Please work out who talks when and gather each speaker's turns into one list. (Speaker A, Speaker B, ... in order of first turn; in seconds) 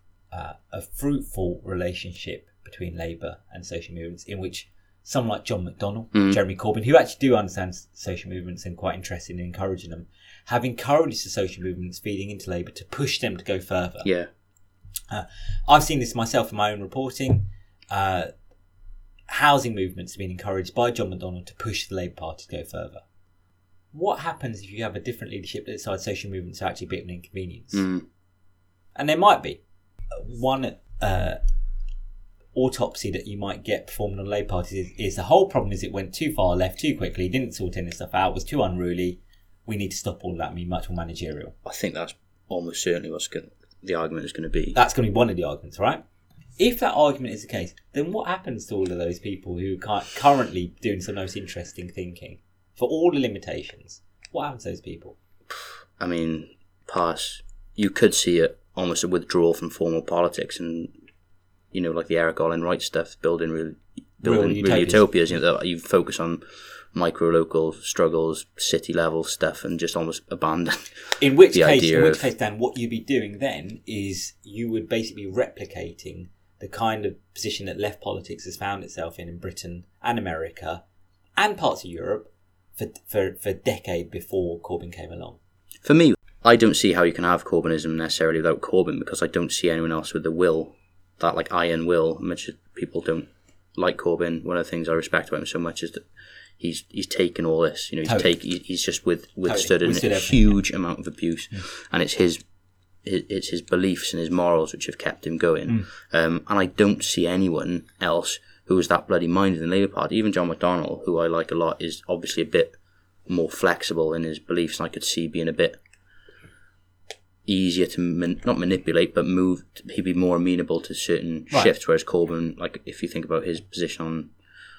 Speaker A: 0.3-14.1, 15.1-18.3, 19.3-23.0, 23.9-27.9, 28.9-29.6, 30.1-31.4, 32.5-41.5, 44.7-46.0, 46.6-55.1, 64.2-65.0, 71.2-80.8, 81.4-85.4, 98.0-98.3, 99.5-100.5
Speaker B: 6.1-6.4, 27.7-28.0, 41.6-44.8, 56.0-60.9, 61.7-72.3, 85.8-96.0, 96.6-102.4, 103.0-115.8, 117.5-124.3